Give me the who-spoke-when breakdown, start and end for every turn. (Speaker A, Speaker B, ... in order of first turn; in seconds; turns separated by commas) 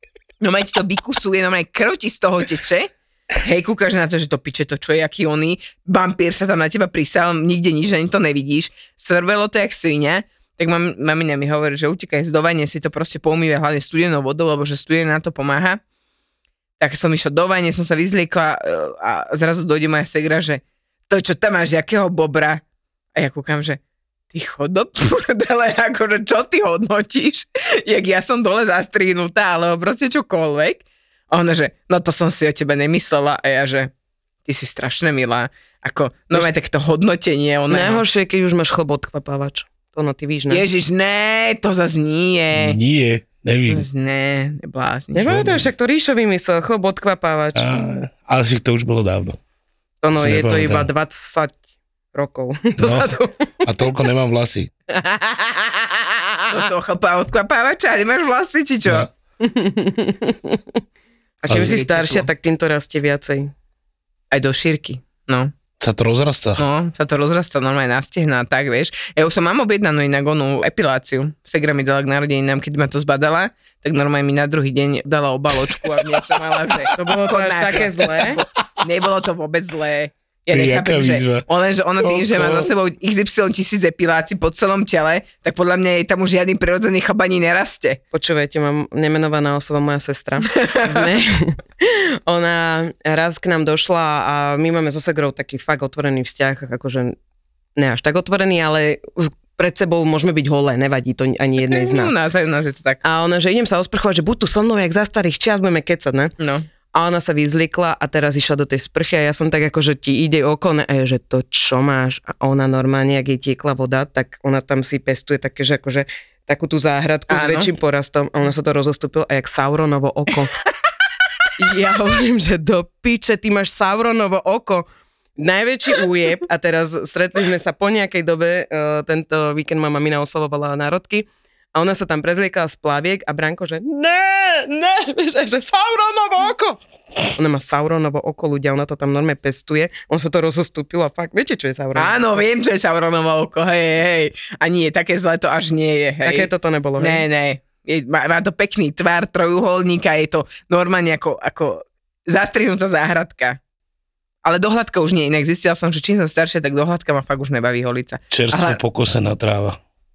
Speaker A: 0.4-15.8, Speaker A: 16.8-22.6, Speaker A: 23.1-23.8, Speaker A: 24.3-33.9, Speaker A: 34.5-38.0, Speaker B: 37.7-40.6, Speaker A: 40.5-42.8, Speaker C: 42.5-43.9, Speaker A: 43.7-45.3, Speaker B: 45.1-47.6, Speaker C: 45.2-45.7, Speaker C: 47.5-49.4, Speaker B: 50.0-51.6, Speaker C: 50.1-50.9, Speaker B: 52.1-53.3, Speaker C: 52.8-54.7, Speaker B: 54.9-56.6, Speaker A: 56.5-59.1, Speaker C: 58.8-59.1, Speaker B: 59.4-60.6, Speaker B: 61.4-63.5, Speaker C: 61.5-61.8, Speaker A: 61.5-62.3, Speaker A: 64.3-65.5, Speaker C: 65.8-66.6, Speaker A: 66.6-88.0, Speaker B: 76.9-78.4, Speaker C: 80.5-81.5, Speaker C: 82.0-82.7, Speaker B: 88.1-97.2, Speaker A: 90.6-91.0, Speaker B: 97.8-102.2, Speaker A: 101.6-103.0, Speaker B: 103.0-106.3, Speaker A: 106.4-106.7, Speaker B: 106.9-120.5, Speaker A: 117.3-117.7, Speaker B: 121.6-136.8, Speaker B: 137.3-142.2, Speaker A: 141.9-153.6, Speaker B: 146.2-147.2, Speaker A: 154.4-158.8, Speaker C: 158.3-159.8